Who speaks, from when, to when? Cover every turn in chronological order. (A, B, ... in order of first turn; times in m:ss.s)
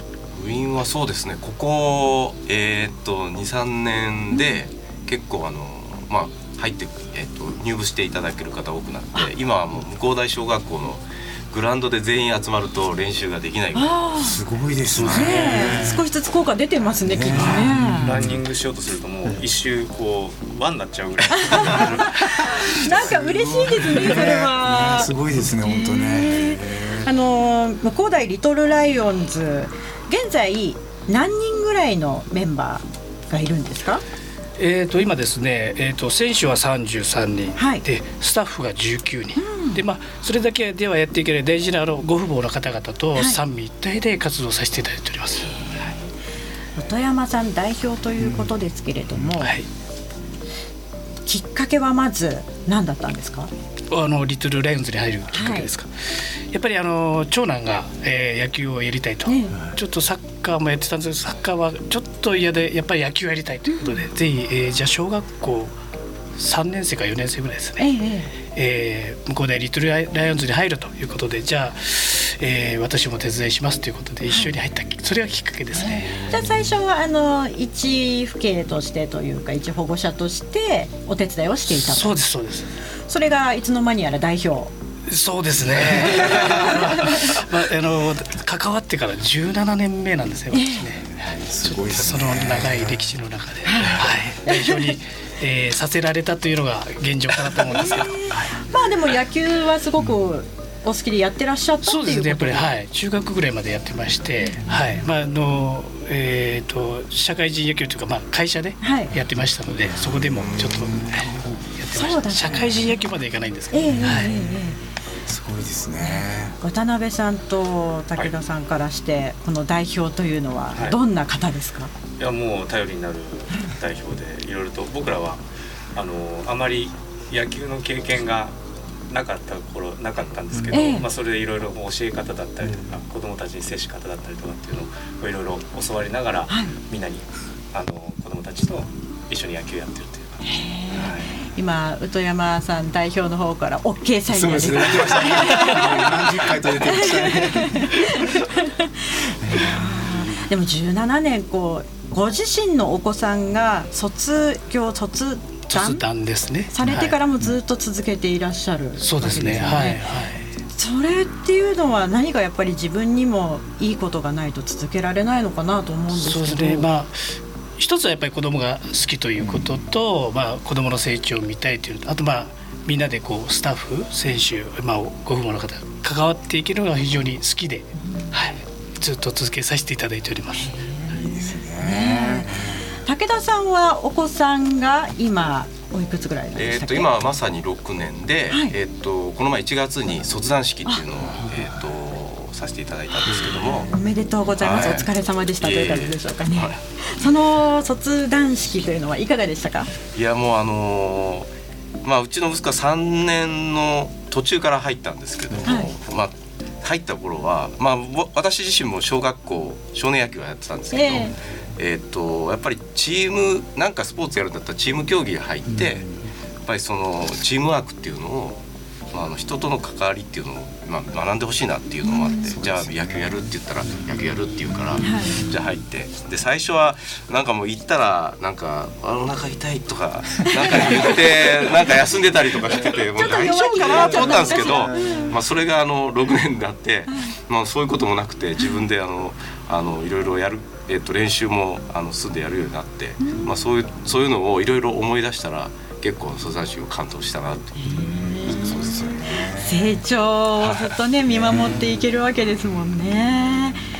0:00.3-0:14.0 A
0:13.7-0:14.4 B
0:14.2-0:16.0 C
0:14.9-0:15.5 A
0:15.0-0:18.1 B
0:15.1-0:15.8 D
0:17.0-0:18.4 C
0:17.4-0:17.7 E
0:18.0-0:22.7 D
0:21.4-0:34.0 B
0:22.8-0:27.1 C
0:34.6-0:45.6 E
0:37.6-0:37.8 B
0:39.4-0:39.8 B
0:45.4-0:45.7 B
0:46.8-0:49.5 B
0:48.2-0:48.5 C
0:49.4-0:49.6 E
0:51.3-0:53.5 B
0:53.9-1:05.7 E
0:55.3-0:55.7 B
0:59.2-0:59.6 B
1:06.4-1:07.9 E
1:07.8-1:08.3 B
1:08.4-1:16.4 E
1:15.7-1:22.1 B
1:21.7-1:22.7 E
1:23.1-1:24.7 B
1:25.1-1:38.5 E
1:26.1-1:27.2 B
1:30.5-1:30.8 B
1:30.8-1:33.2 C
1:33.6-1:34.9 B
1:37.7-1:42.7 B
1:41.8-1:54.3 E
1:48.8-1:49.1 B
1:49.9-1:51.6 C
1:51.9-1:52.7 B
1:52.4-1:52.8 C
1:53.7-1:54.8 B
1:54.0-1:54.3 C
1:55.2-1:56.6 C
1:56.0-2:01.9 B
2:02.2-2:05.4 D
2:05.9-2:08.5 D
2:09.1-2:20.4 D
2:10.7-2:11.0 B
2:16.5-2:16.7 B
2:20.4-2:36.0 B
2:20.9-2:21.3 D
2:24.3-2:28.0 C
2:29.4-2:30.0 C
2:35.7-2:37.1 E
2:36.7-2:40.0 B
2:39.0-2:40.4 E
2:40.7-2:46.9 B
2:46.1-3:00.8 E
3:00.6-3:07.1 B
3:01.1-3:02.9 C
3:06.5-3:14.0 A
3:13.2-3:19.9 B
3:14.6-3:16.8 A
3:20.1-3:21.5 A
3:22.0-3:36.1 A
3:25.6-3:25.9 B
3:30.9-3:31.3 B
3:36.6-3:38.6 A
3:39.1-4:08.0 A
3:42.1-3:42.4 B
3:42.4-3:43.4 C
3:45.0-3:45.4 B
3:53.1-3:55.3 B
3:53.9-3:55.2 C
3:57.1-3:57.3 B
4:03.2-4:03.5 B
4:07.8-4:13.8 B
4:08.0-4:10.0 C
4:10.6-4:11.0 A
4:11.4-4:11.9 C